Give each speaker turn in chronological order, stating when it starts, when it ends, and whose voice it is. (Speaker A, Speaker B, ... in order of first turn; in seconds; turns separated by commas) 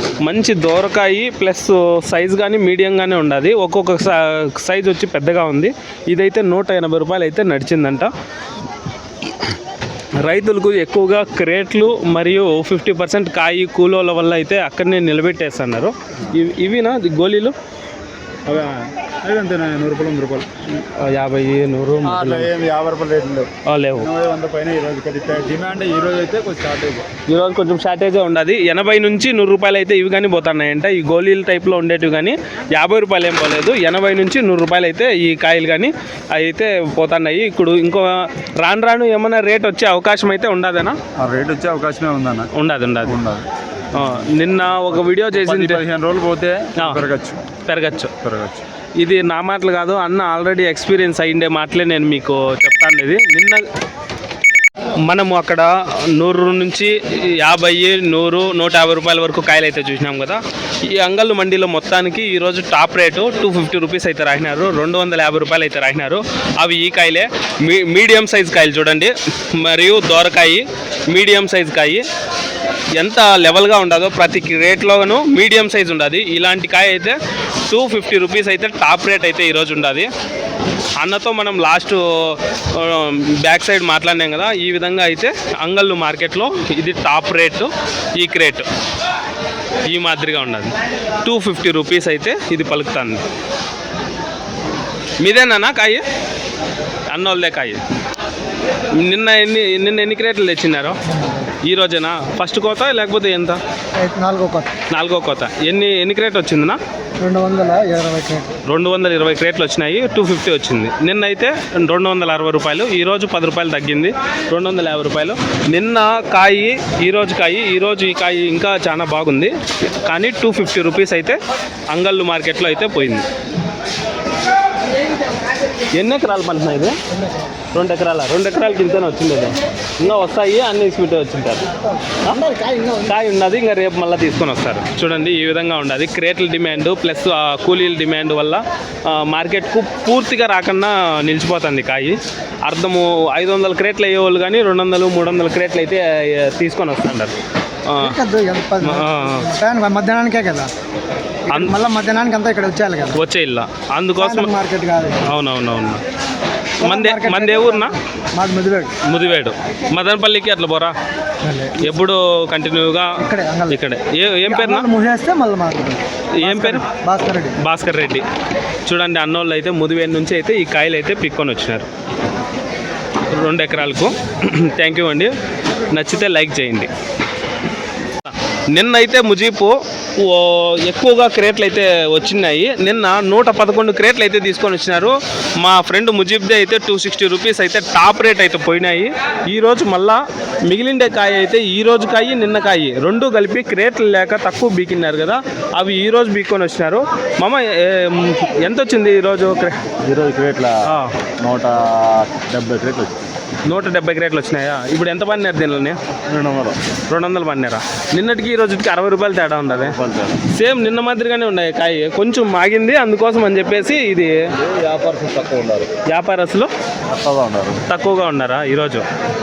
Speaker A: 0.2-8.1, Speaker A: 10.2-17.6, Speaker B: 18.4-20.5, Speaker A: 20.7-22.5, Speaker B: 22.0-27.1, Speaker A: 23.6-24.1, Speaker A: 27.3-41.0, Speaker B: 41.2-42.5, Speaker A: 42.5-43.2, Speaker B: 43.0-44.3, Speaker A: 43.9-45.8, Speaker B: 45.3-47.4, Speaker A: 46.8-47.0, Speaker A: 47.6-48.1, Speaker B: 48.2-48.6, Speaker A: 49.0-53.6, Speaker A: 55.0-72.0, Speaker A: 72.9-80.1, Speaker A: 81.0-88.7, Speaker A: 89.8-93.2, Speaker A: 95.2-96.0, Speaker A: 97.1-97.8, Speaker A: 98.9-101.0, Speaker C: 101.1-101.5, Speaker A: 101.6-103.6, Speaker C: 104.0-104.7, Speaker A: 104.9-106.8, Speaker C: 107.2-108.5, Speaker A: 108.7-123.2, Speaker A: 125.9-127.0, Speaker A: 127.7-148.2, Speaker C: 132.3-133.0, Speaker C: 148.0-150.7, Speaker A: 148.8-149.5, Speaker C: 151.4-153.2, Speaker A: 151.5-151.8, Speaker A: 153.1-154.5, Speaker C: 154.2-155.2, Speaker A: 155.2-156.0, Speaker A: 156.8-157.9, Speaker C: 156.8-159.0, Speaker A: 159.0-160.9, Speaker C: 161.4-161.9, Speaker A: 161.8-164.9, Speaker C: 163.2-163.8, Speaker C: 164.4-167.6, Speaker A: 166.4-166.8, Speaker A: 167.6-168.2, Speaker A: 168.8-171.9, Speaker A: 173.2-175.3, Speaker A: 175.9-176.9, Speaker A: 178.7-199.9, Speaker B: 200.0-203.2, Speaker A: 200.8-201.1, Speaker A: 203.7-206.0, Speaker B: 206.3-206.8, Speaker A: 207.1-214.5, Speaker B: 209.7-210.3, Speaker B: 214.6-215.9, Speaker A: 216.1-216.7, Speaker B: 217.1-217.8, Speaker A: 217.8-219.0